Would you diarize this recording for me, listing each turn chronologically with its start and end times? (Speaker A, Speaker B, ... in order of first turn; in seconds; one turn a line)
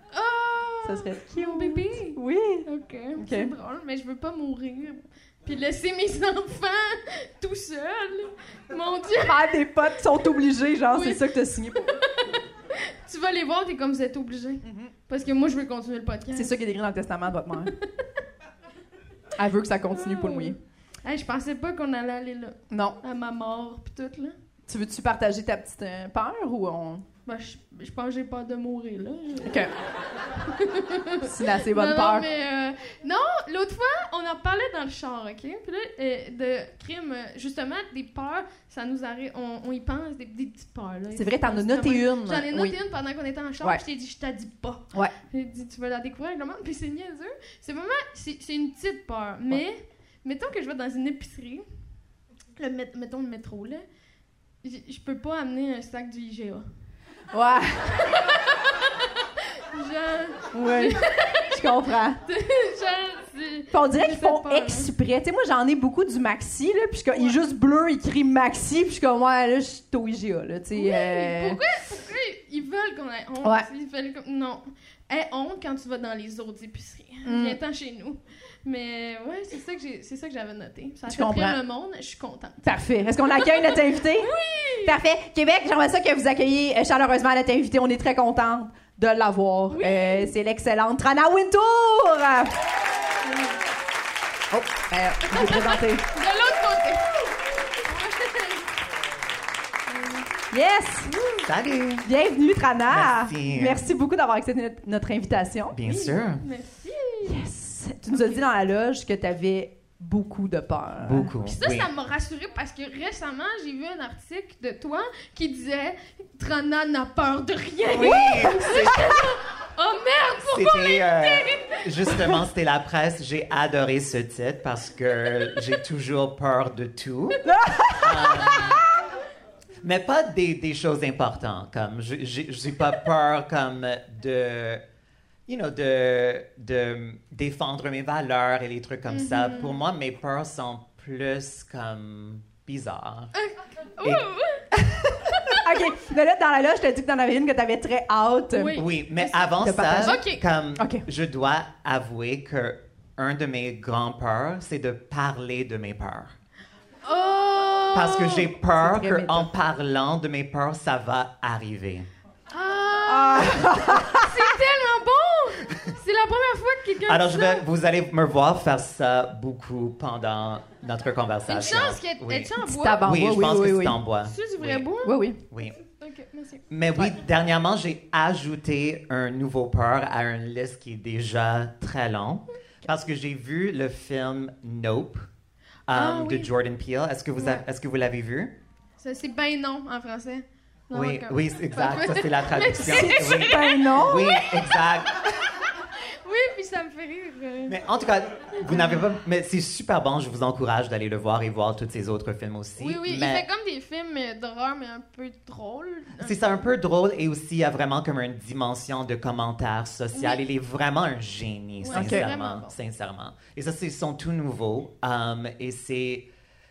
Speaker A: 0.1-9.5
Speaker B: 0.8-3.5
Speaker B: 9.2-12.0
Speaker A: 10.9-16.5
Speaker B: 14.6-14.9
Speaker B: 16.3-17.7
Speaker A: 17.6-18.1
Speaker B: 19.4-20.6
Speaker A: 20.0-24.4
Speaker B: 22.7-23.0
Speaker B: 24.7-27.0
Speaker A: 27.2-29.7
Speaker B: 29.4-29.7
Speaker A: 30.4-51.6
Speaker B: 31.2-32.2
Speaker B: 41.1-42.8
Speaker A: 52.6-53.8
Speaker A: 54.6-56.7
Speaker B: 57.3-58.0
Speaker A: 57.9-61.6
Speaker B: 60.5-62.2
Speaker A: 62.3-64.9
Speaker B: 63.7-71.6
Speaker A: 70.7-82.6
Speaker B: 77.2-77.6
Speaker B: 81.1-81.6
Speaker B: 82.6-84.3
Speaker A: 83.2-84.9
Speaker B: 84.8-92.5
Speaker A: 89.7-90.3
Speaker A: 93.2-93.6
Speaker C: 94.5-94.8
Speaker B: 94.9-96.0
Speaker A: 95.3-97.1
Speaker A: 97.8-98.8
Speaker A: 99.9-100.3
Speaker B: 100.5-101.1
Speaker A: 101.1-101.5
Speaker C: 101.5-102.1
Speaker B: 102.0-105.8
Speaker C: 102.9-103.8
Speaker C: 105.7-106.4
Speaker A: 105.8-107.4
Speaker B: 107.2-111.3
Speaker A: 108.1-108.4
Speaker C: 111.0-111.9
Speaker A: 111.4-122.4
Speaker C: 117.9-119.1
Speaker C: 120.5-127.4
Speaker B: 127.4-128.7
Speaker C: 128.0-128.8
Speaker C: 129.8-134.8
Speaker C: 135.5-143.3
Speaker A: 139.1-139.8
Speaker A: 143.3-144.7
Speaker B: 144.7-148.8
Speaker A: 145.2-145.6
Speaker A: 148.5-149.5
Speaker C: 148.7-156.3
Speaker B: 149.5-150.2
Speaker A: 150.0-150.4
Speaker B: 150.8-151.0
Speaker A: 157.0-158.5
Speaker C: 157.9-162.1
Speaker B: 158.8-159.5
Speaker A: 162.5-167.6
Speaker B: 163.1-164.5
Speaker C: 167.1-174.9
Speaker A: 171.5-173.1
Speaker B: 172.6-174.0
Speaker A: 174.2-177.2
Speaker B: 175.0-175.4
Speaker C: 175.5-175.8
Speaker C: 176.7-185.2
Speaker C: 185.9-188.5
Speaker A: 185.9-186.5
Speaker A: 187.3-187.6
Speaker A: 189.0-194.8
Speaker C: 190.9-195.3
Speaker B: 192.8-194.3
Speaker A: 196.2-197.8
Speaker C: 197.7-203.4
Speaker A: 198.6-199.0
Speaker A: 202.8-206.7
Speaker C: 206.2-216.2
Speaker A: 210.1-210.4
Speaker A: 211.8-212.7
Speaker B: 211.9-212.2